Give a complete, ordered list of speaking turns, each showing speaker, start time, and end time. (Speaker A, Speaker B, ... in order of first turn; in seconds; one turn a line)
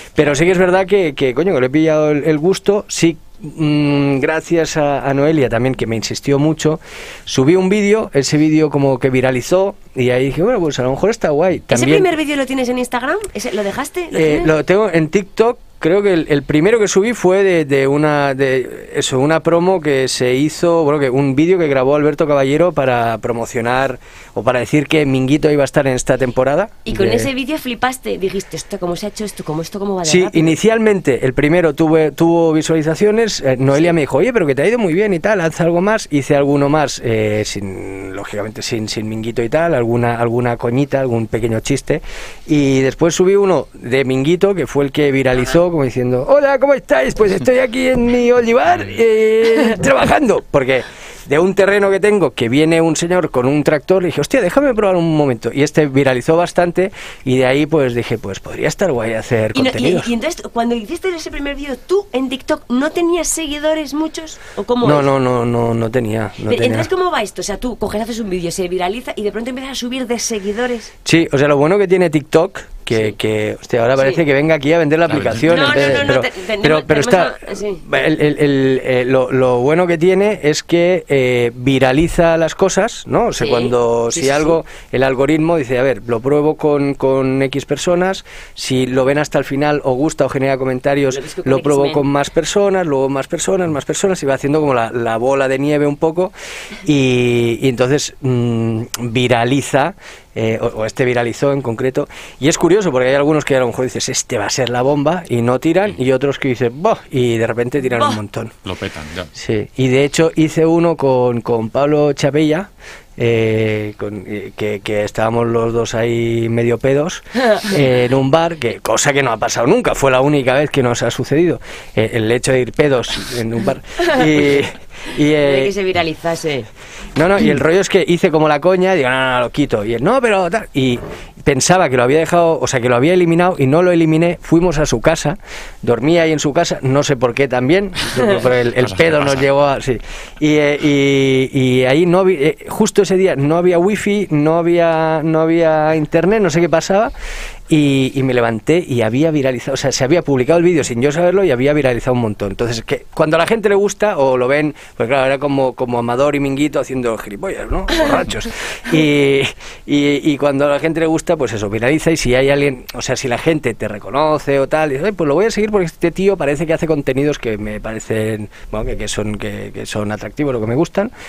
Speaker A: 0.1-12.1
Speaker B: 11.7-14.5
Speaker A: 14.1-27.3
Speaker B: 26.9-30.6
Speaker A: 30.0-60.1
Speaker B: 59.5-65.1
Speaker A: 64.8-66.9
Speaker B: 66.5-70.9
Speaker A: 71.0-96.3
Speaker C: 75.1-75.9
Speaker B: 75.4-77.8
Speaker B: 83.3-84.6
Speaker B: 91.1-92.1
Speaker A: 96.8-108.5
Speaker C: 108.6-109.3
Speaker A: 109.3-125.7
Speaker B: 117.4-117.7
Speaker B: 125.3-126.7
Speaker A: 127.2-147.1
Speaker C: 138.8-139.4
Speaker A: 147.7-171.1